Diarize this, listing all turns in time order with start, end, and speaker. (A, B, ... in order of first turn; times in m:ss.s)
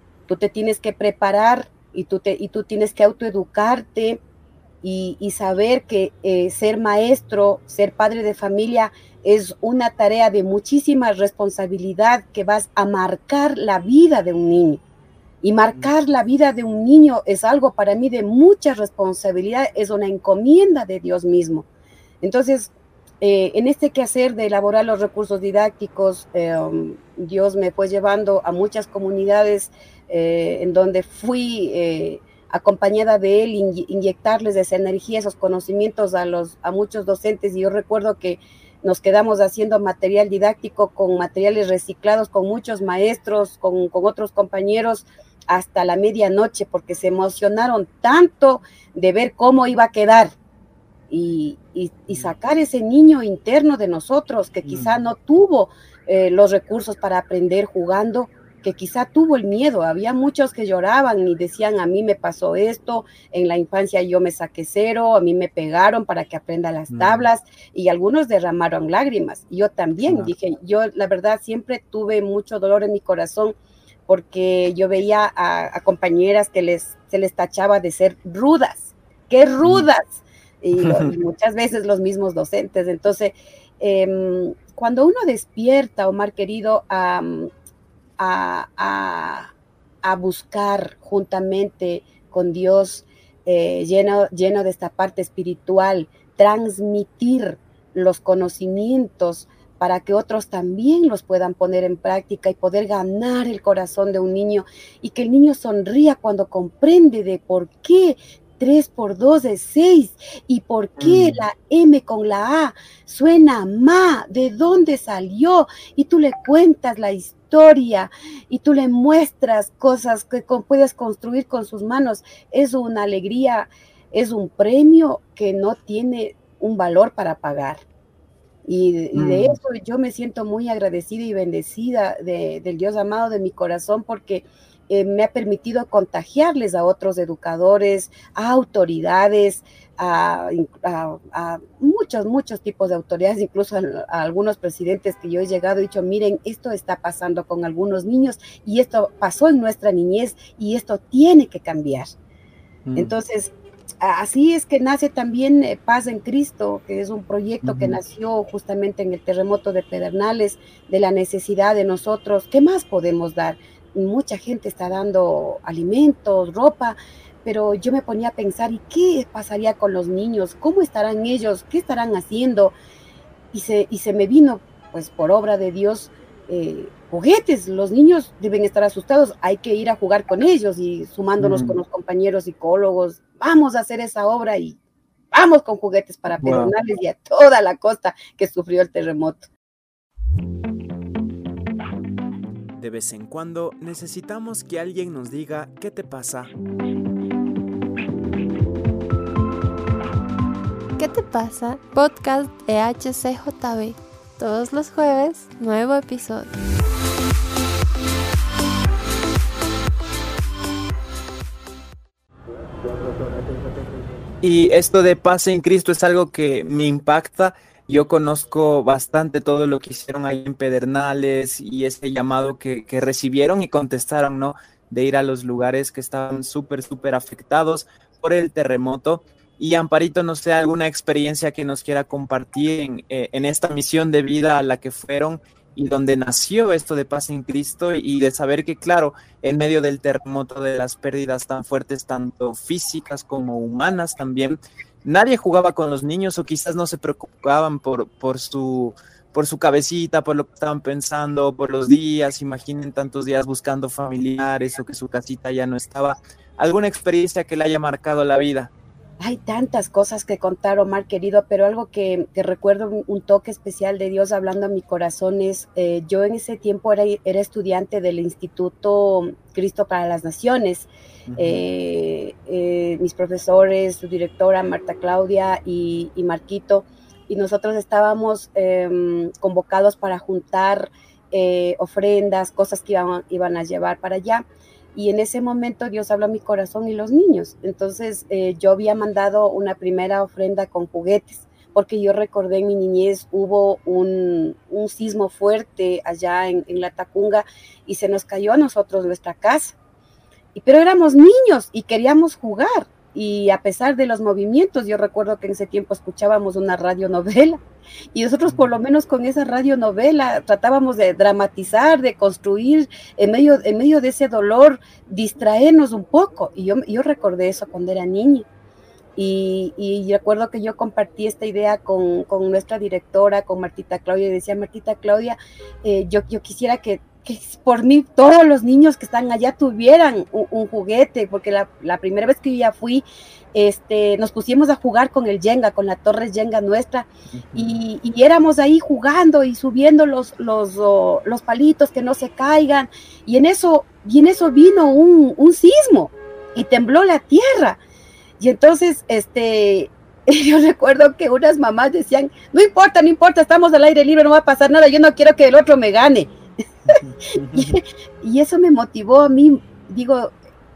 0:00.3-0:04.2 A
0:04.8-0:14.8 A
0:15.4-0:21.7 A
0:22.2-0:50.3 A
0:51.1-1:13.6 A
0:54.6-0:55.0 B
1:06.9-1:07.3 B
1:10.1-1:10.3 B
1:14.1-1:27.5 A
1:20.8-1:21.1 B
1:28.2-1:29.5 A
1:30.0-2:07.8 A
1:51.0-1:51.4 B
2:08.7-2:32.1 A
2:09.2-2:09.6 B
2:32.9-2:33.2 B
2:33.0-2:52.7 A
2:37.6-2:38.0 B
2:53.5-3:04.8 A
3:01.4-3:01.8 B
3:05.3-3:09.5 A
3:06.4-3:06.7 B
3:12.8-3:16.5 B
3:21.0-3:26.5 C
3:34.4-4:18.7 B
4:19.2-4:59.8 A
4:31.3-4:31.6 B
5:00.6-5:07.6 A
5:08.1-5:18.5 A
5:19.2-5:47.8 A
5:37.3-5:37.8 B
5:48.4-5:56.3 A
5:56.9-5:57.8 B
5:57.5-6:00.3 A